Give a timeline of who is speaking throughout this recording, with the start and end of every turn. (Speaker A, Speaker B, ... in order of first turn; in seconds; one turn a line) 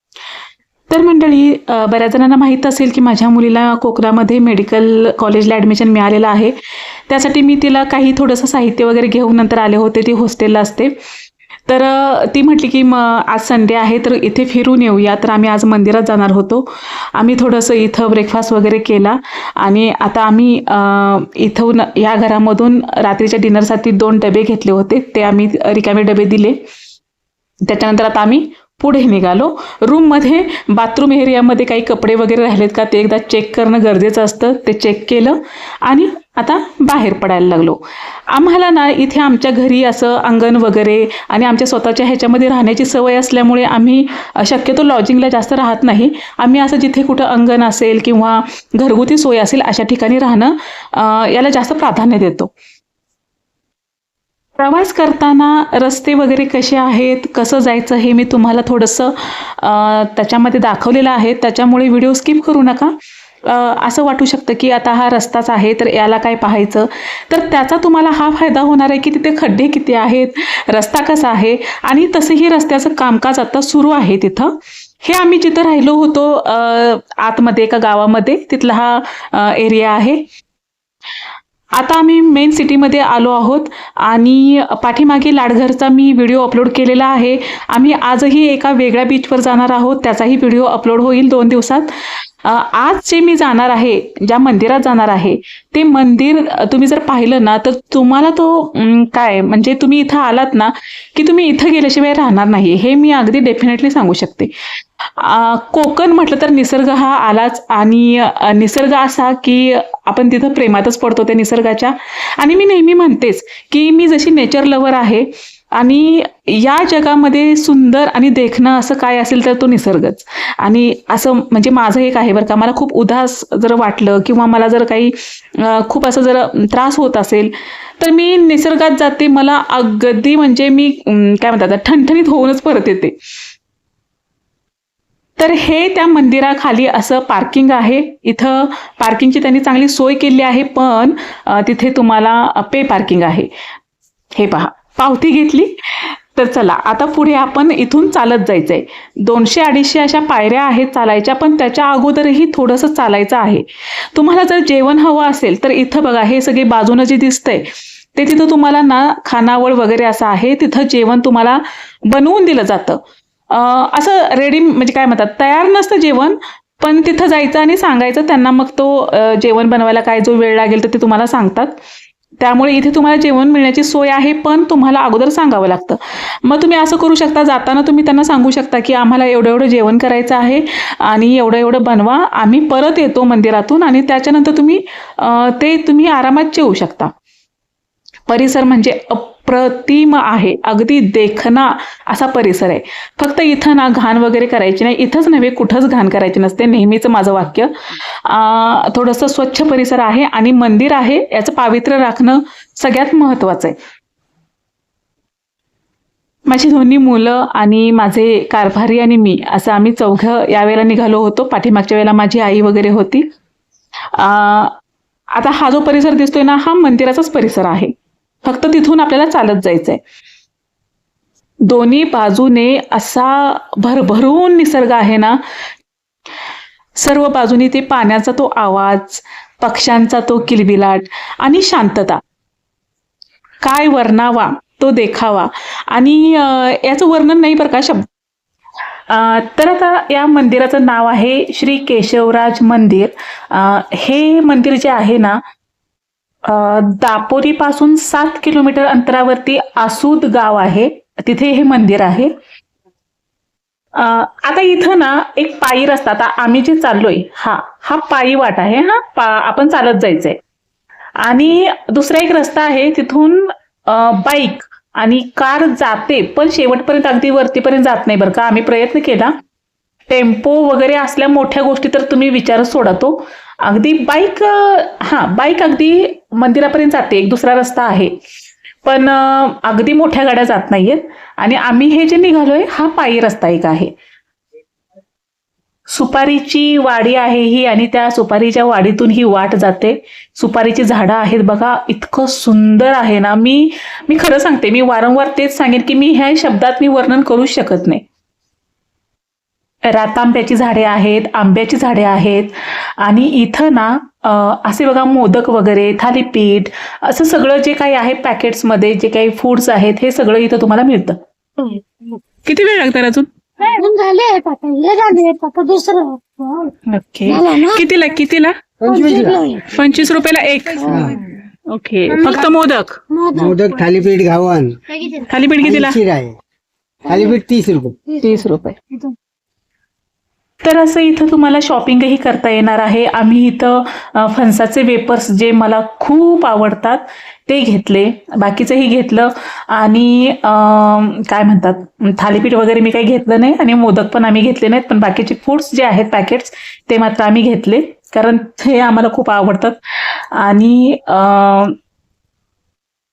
Speaker A: 0.9-6.6
Speaker A: 7.1-10.9
Speaker A: 11.7-26.6
Speaker A: 27.7-52.5
Speaker A: 54.6-62.9
Speaker A: 63.5-74.5
Speaker A: 75.0-80.2
Speaker A: 81.8-91.9
Speaker A: 92.4-104.5
Speaker A: 105.1-133.2
Speaker A: 135.4-143.5
Speaker A: 144.4-171.8
Speaker A: 172.4-187.1
Speaker A: 188.3-203.8
Speaker A: 206.5-213.3
Speaker A: 214.1-214.8
Speaker A: 215.3-217.9
Speaker A: 218.4-220.0
Speaker A: 221.7-225.4
Speaker A: 227.0-232.2
Speaker A: 233.6-238.1
Speaker A: 239.1-245.4
Speaker A: 246.4-252.3
Speaker A: 254.0-260.4
Speaker A: 261.2-269.3
Speaker A: 270.1-278.2
Speaker A: 278.9-283.9
Speaker A: 285.9-298.0
Speaker A: 299.9-311.2
Speaker B: 311.6-312.2
Speaker A: 312.4-313.3
Speaker B: 313.6-317.9
Speaker A: 316.9-318.6
Speaker C: 318.8-319.4
Speaker B: 318.9-319.8
Speaker A: 319.7-323.0
Speaker C: 320.8-321.2
Speaker B: 320.9-321.1
Speaker B: 322.1-322.5
Speaker B: 323.1-323.8
Speaker C: 323.3-324.8
Speaker B: 325.0-325.3
Speaker A: 325.3-326.0
Speaker C: 325.6-326.4
Speaker C: 327.1-328.0
Speaker B: 327.1-327.4
Speaker B: 328.1-329.1
Speaker A: 328.2-328.8
Speaker A: 330.6-351.8